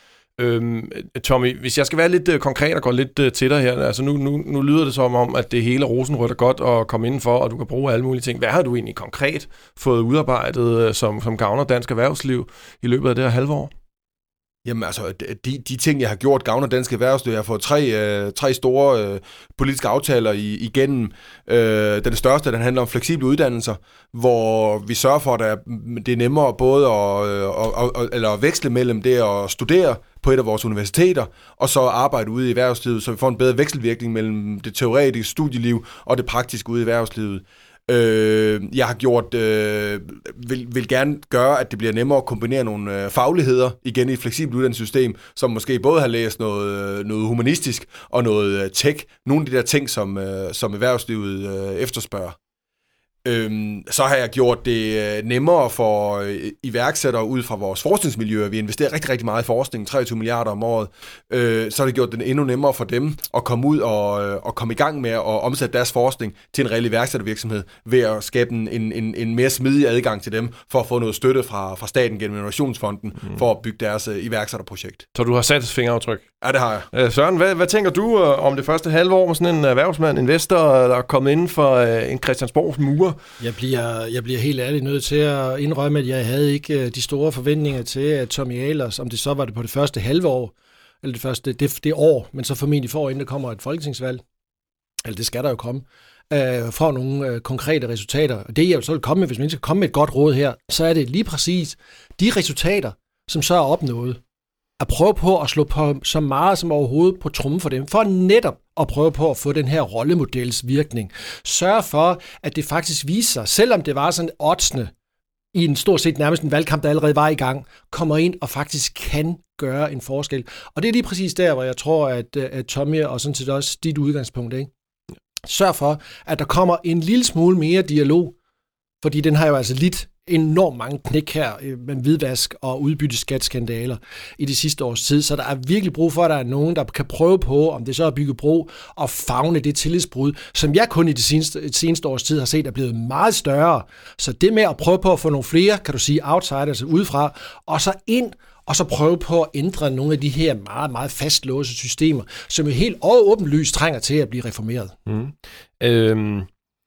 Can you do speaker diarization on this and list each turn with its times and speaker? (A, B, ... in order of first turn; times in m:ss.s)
0:00.4-0:13.7 A
0:14.6-0:52.4 B
0:53.2-1:15.1 B
1:15.1-1:16.2 A
1:16.4-1:16.9 B
1:16.9-1:23.2 A
1:23.4-1:34.2 C
1:35.0-1:44.2 C
1:44.8-1:54.9 C
1:55.5-2:04.7 C
2:05.5-2:08.3 C
2:09.0-2:34.9 C
2:35.0-2:36.5 A